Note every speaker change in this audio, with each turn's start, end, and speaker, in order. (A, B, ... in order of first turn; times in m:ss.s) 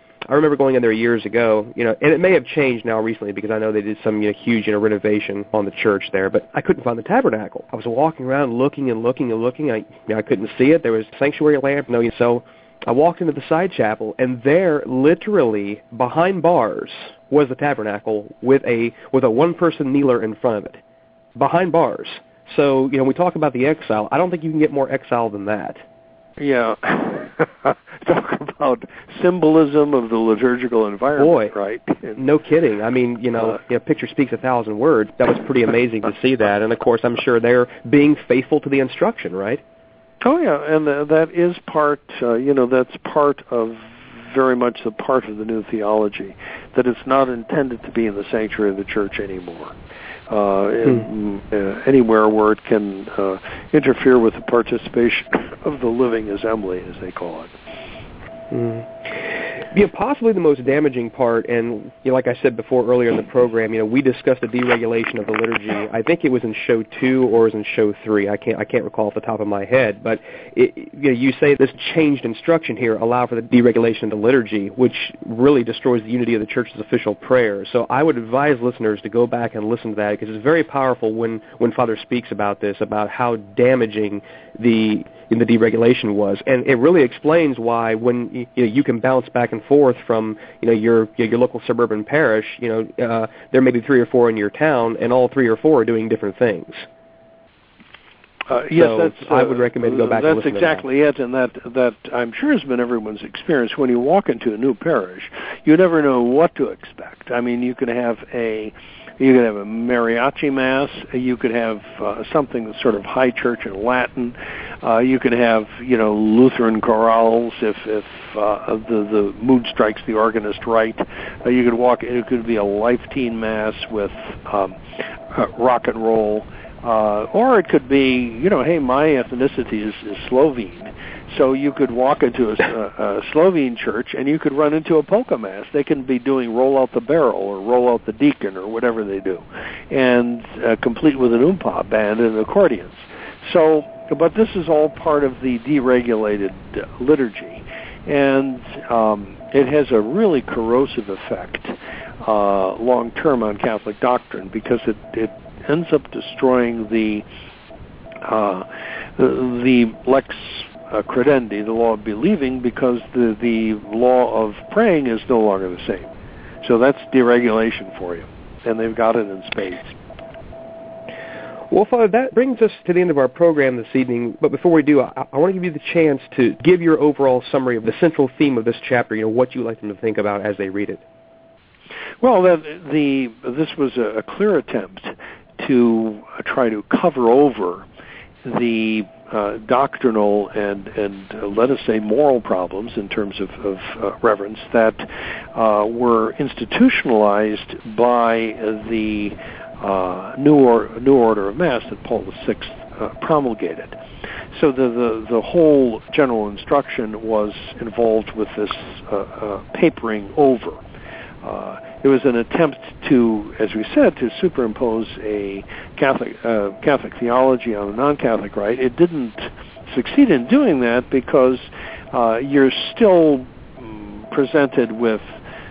0:00.2-0:20.8 A
0:21.3-0:25.8 A
0:26.4-0:32.2 B
0:31.2-0:31.5 A
0:32.2-0:39.6 A
0:40.2-0:49.8 B
0:50.3-0:57.5 B
0:58.5-1:36.8 A
1:38.5-2:37.2 B
1:38.7-1:40.8 A
2:38.2-2:38.6 B
2:39.2-2:46.1 B
2:46.6-2:49.9 B
2:51.7-3:01.0 A
3:02.2-3:07.9 B
3:08.4-3:24.0 B
3:24.5-3:30.8 B
3:31.4-3:45.4 B